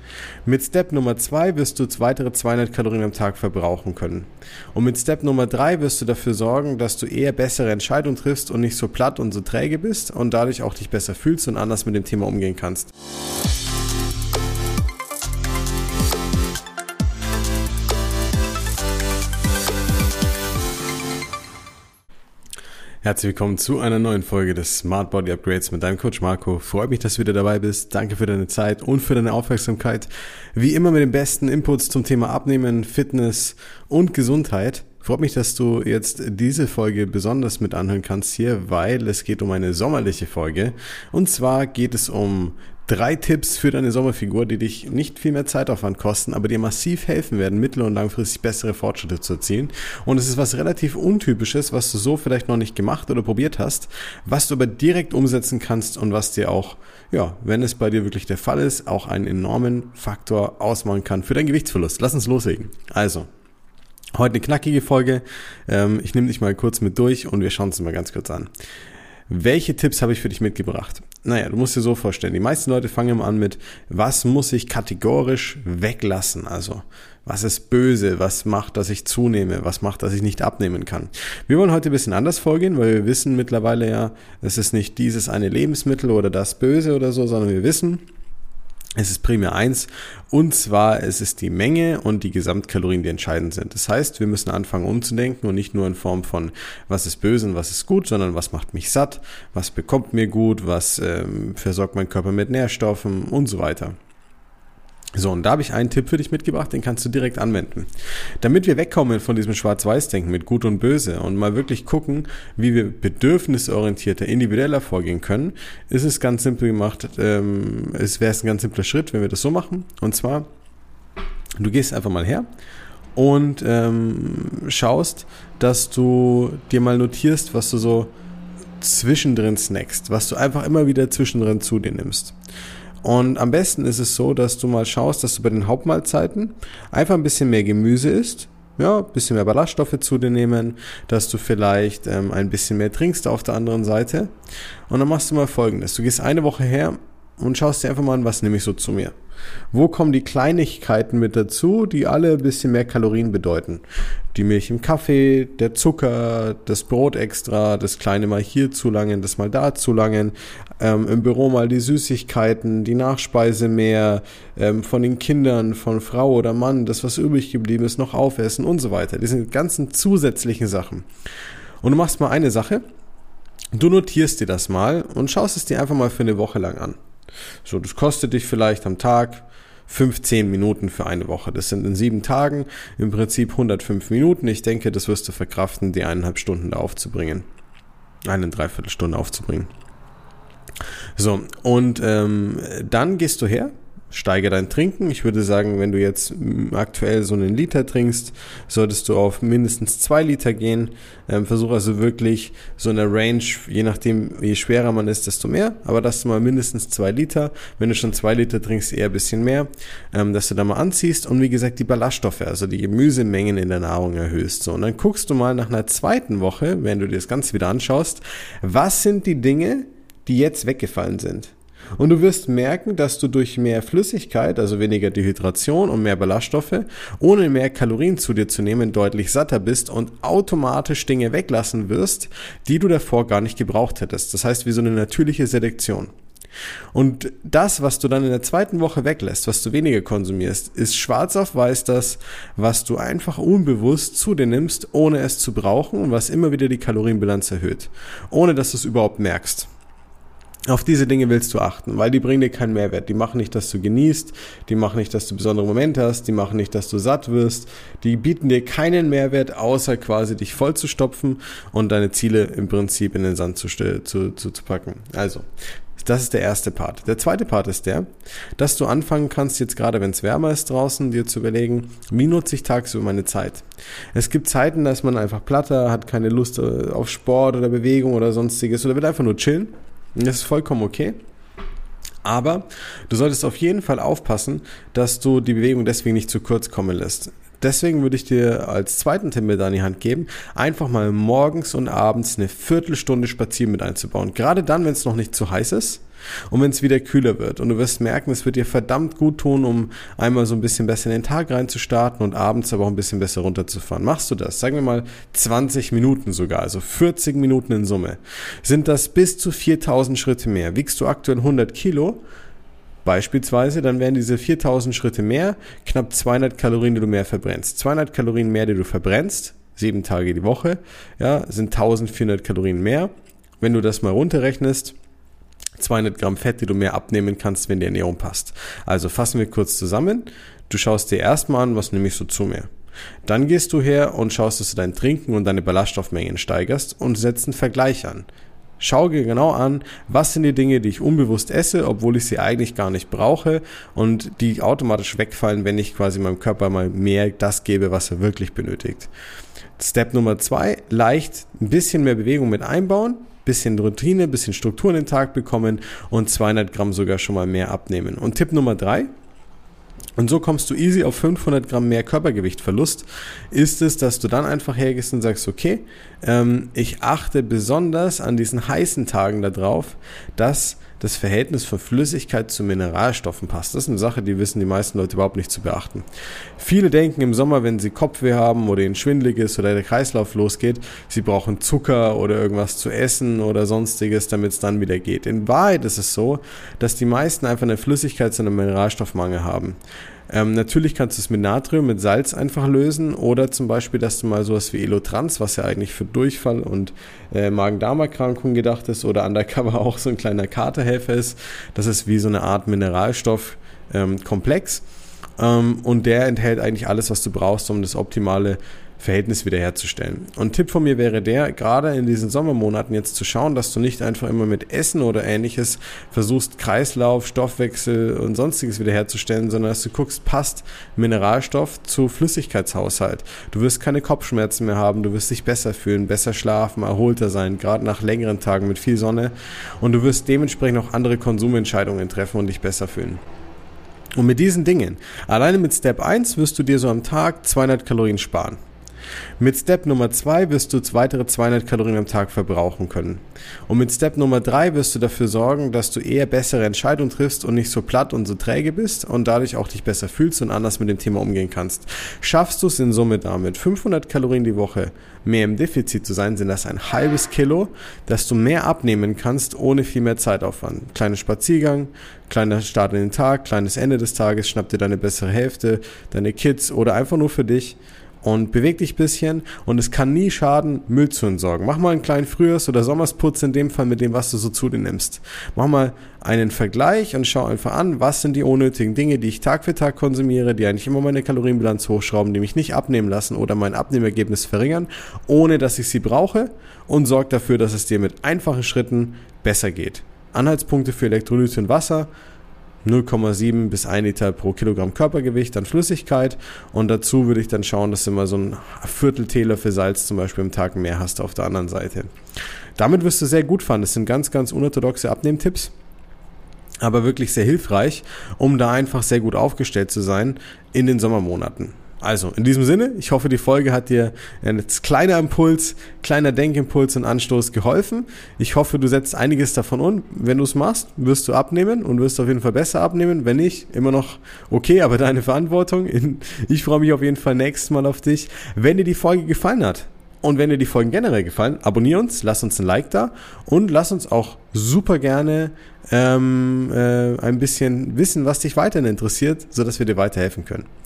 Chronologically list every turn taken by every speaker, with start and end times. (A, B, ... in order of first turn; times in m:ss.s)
0:00.4-0:12.9 A
0:23.0-1:03.3 A
1:04.1-1:08.5 A
1:09.3-1:28.0 A
1:29.0-1:44.0 A
1:45.1-1:47.9 A
1:48.4-2:00.5 A
2:01.6-2:02.5 A
2:03.2-2:08.1 A
2:08.8-2:12.3 A
2:13.0-2:24.3 A
2:24.9-2:29.1 A
2:29.7-2:33.8 A
2:34.3-2:51.0 A
2:51.8-2:52.8 A
2:53.7-2:57.0 A
2:57.6-3:07.4 A
3:08.3-3:09.7 A
3:11.2-3:56.1 A
3:56.9-4:09.7 A
4:10.7-4:25.5 A
4:26.0-4:41.2 A
4:42.2-5:12.2 A
5:13.0-5:25.0 A
5:25.8-5:32.7 A
5:33.2-5:38.3 A
5:38.8-5:49.1 A
5:49.8-5:59.1 A
6:00.2-6:16.0 A
6:16.6-6:29.8 A
6:30.3-6:44.8 A
6:45.4-7:13.2 A
7:14.2-7:18.6 A
7:19.4-8:12.1 A
8:12.8-8:22.1 A
8:22.8-8:25.7 A
8:26.8-9:00.7 A